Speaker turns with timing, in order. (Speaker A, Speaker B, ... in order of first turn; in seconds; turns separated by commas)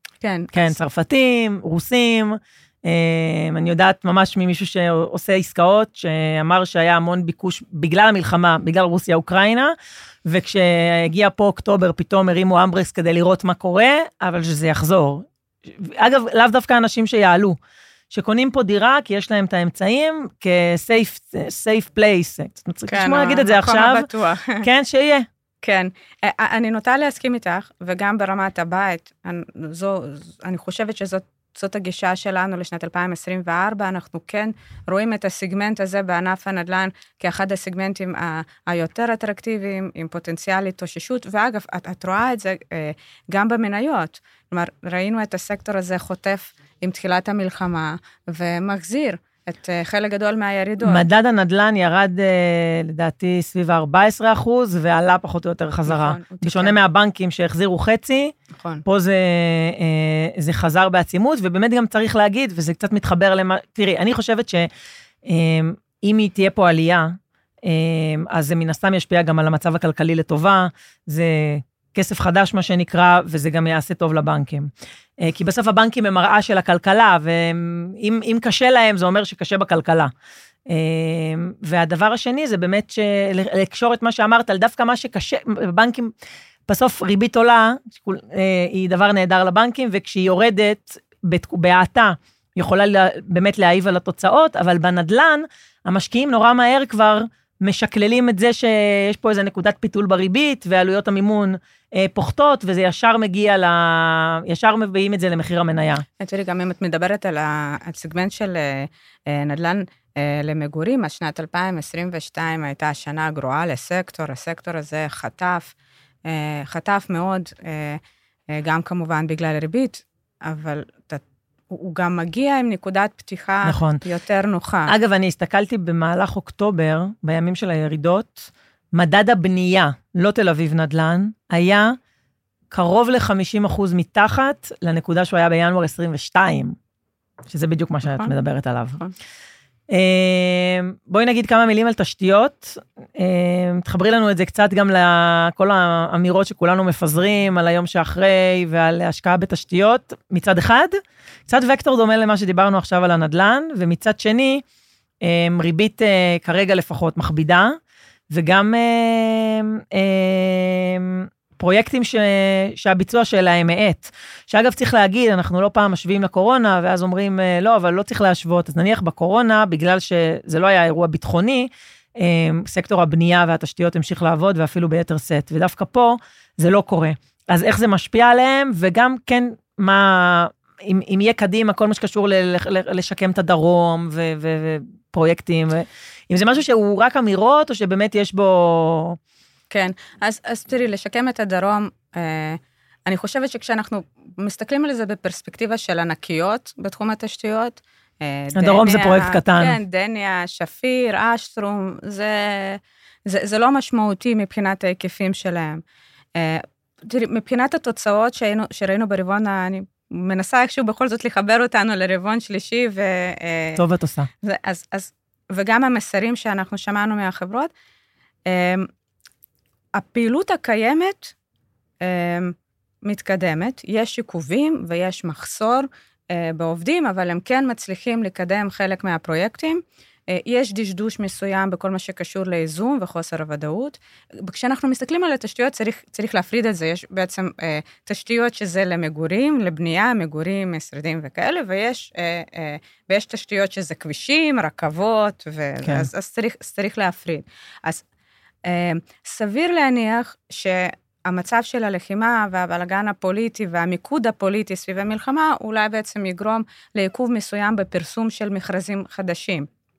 Speaker A: 0.2-0.7, Speaker B: 0.5-9.7, Speaker B: 10.2-17.6, Speaker B: 18.1-24.1, Speaker A: 22.9-24.7, Speaker B: 24.6-25.3, Speaker A: 25.6-51.0, Speaker B: 50.8-64.7, Speaker A: 55.9-56.8, Speaker A: 58.5-58.8, Speaker B: 65.2-80.1, Speaker B: 80.7-86.1, Speaker B: 86.7-106.0, Speaker A: 106.2-115.7, Speaker A: 116.3-118.0, Speaker A: 118.5-124.9, Speaker B: 123.7-124.0, Speaker B: 124.9-132.0, Speaker B: 132.7-136.8, Speaker B: 137.5-139.0, Speaker A: 138.1-138.3, Speaker B: 139.9-154.6, Speaker B: 155.2-157.8, Speaker B: 158.3-189.2, Speaker A: 189.7-205.8, Speaker B: 198.6-199.8, Speaker A: 206.4-213.8, Speaker B: 213.8-214.3, Speaker A: 214.4-217.7, Speaker A: 218.5-218.9, Speaker A: 219.9-221.3, Speaker A: 222.0-248.0, Speaker A: 248.7-259.7